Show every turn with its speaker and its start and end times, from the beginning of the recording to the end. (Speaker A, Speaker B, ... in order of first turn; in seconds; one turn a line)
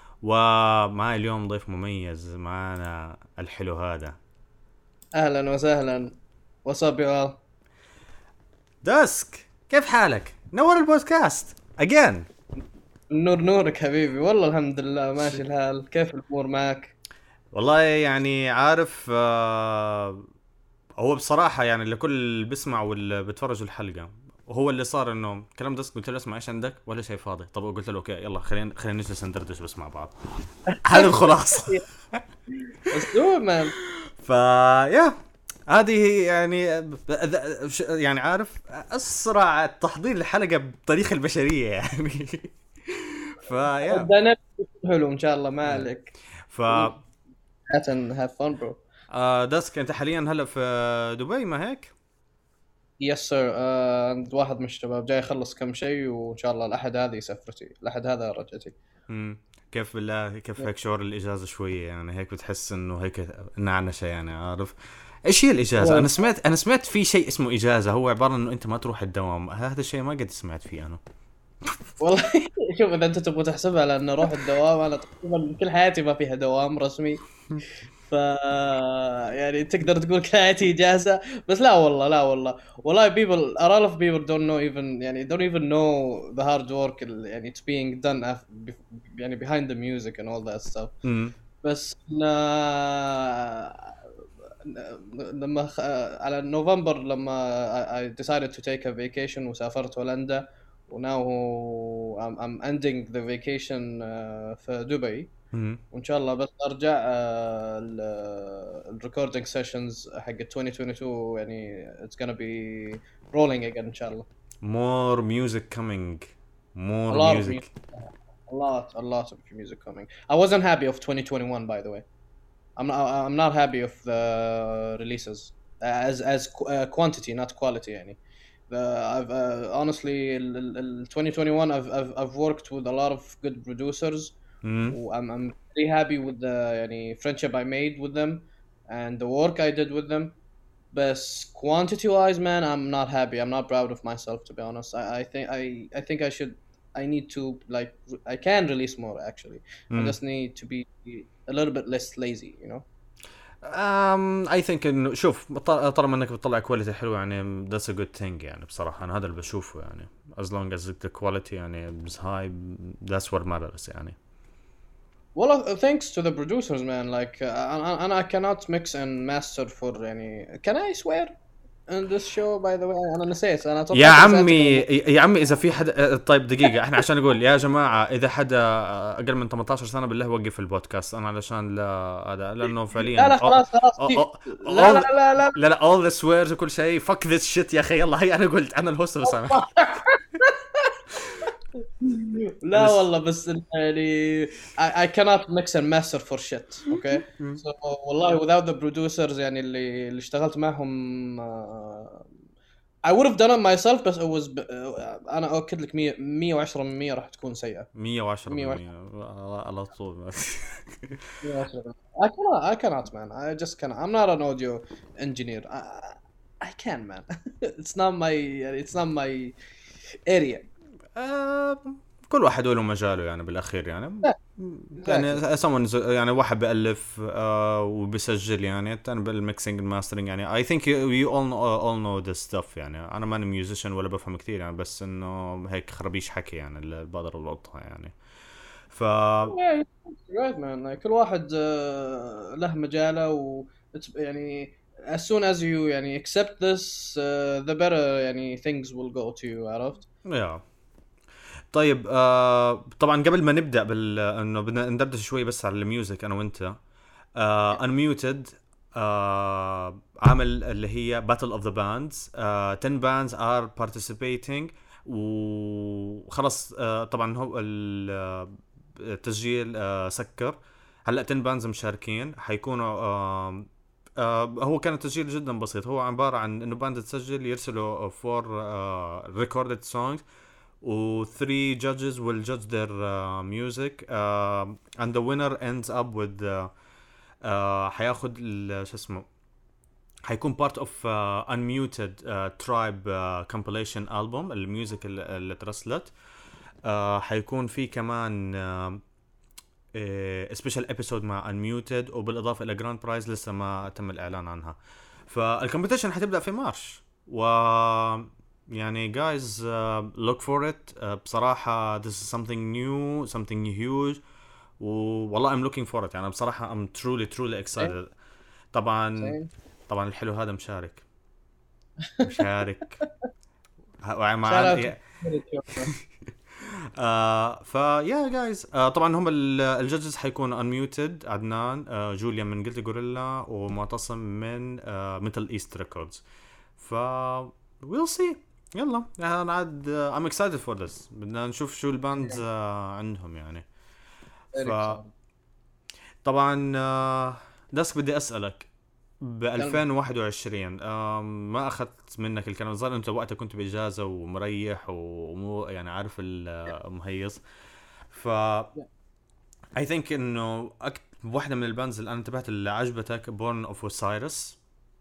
Speaker A: 0.2-4.2
Speaker B: 5.1-7.4
Speaker A: 8.8-12.3
Speaker B: 13.1-16.9
Speaker A: 17.5-20.2
Speaker A: 21.0-32.2
Speaker B: 30.7-31.8
Speaker B: 32.9-33.8
Speaker A: 33.8-35.1
Speaker A: 35.7-44.1
Speaker B: 43.8-46.1
Speaker A: 46.5-47.0
Speaker B: 46.7-46.9
Speaker B: 47.7-48.8
Speaker A: 49.1-51.9
Speaker B: 53.0-58.8
Speaker A: 59.1-71.0
Speaker B: 65.8-66.1
Speaker B: 72.0-77.2
Speaker B: 78.0-90.9
Speaker A: 91.0-91.3
Speaker B: 91.6-94.0
Speaker B: 94.6-105.3
Speaker A: 105.5-105.8
Speaker B: 105.9-114.2
Speaker A: 114.6-117.7
Speaker B: 117.1-122.0
Speaker B: 122.8-128.2
Speaker B: 128.7-134.3
Speaker A: 134.6-135.0
Speaker B: 134.9-140.3
Speaker B: 140.9-152.8
Speaker A: 149.9-150.2
Speaker A: 153.6-164.2
Speaker B: 165.3-171.3
Speaker B: 171.9-174.9
Speaker A: 173.9-189.7
Speaker B: 183.1-185.6
Speaker B: 189.2-191.0
Speaker B: 192.0-202.3
Speaker A: 192.7-193.1
Speaker A: 196.9-197.6
Speaker B: 203.0-207.9
Speaker A: 207.9-211.2
Speaker B: 208.5-208.8
Speaker B: 211.4-219.5
Speaker B: 220.3-220.7
Speaker A: 221.1-238.1
Speaker B: 225.0-225.4
Speaker A: 238.9-239.6
Speaker B: 239.5-250.1
Speaker A: 250.2-250.6
Speaker A: 251.7-256.8
Speaker A: 257.4-280.2
Speaker A: 280.8-286.7
Speaker A: 287.4-289.2
Speaker A: 290.3-296.1
Speaker A: 296.8-299.0
Speaker A: 299.9-314.2
Speaker A: 314.8-318.1
Speaker A: 318.7-319.4
Speaker B: 319.2-319.5
Speaker A: 319.9-321.0
Speaker B: 322.1-322.3
Speaker A: 322.2-323.0
Speaker A: 324.0-325.0
Speaker B: 324.4-325.9
Speaker A: 326.6-336.2
Speaker A: 336.8-343.6
Speaker B: 344.5-345.1
Speaker A: 344.6-345.0
Speaker A: 346.2-348.7
Speaker A: 349.2-357.4
Speaker A: 358.1-358.7
Speaker A: 359.8-364.6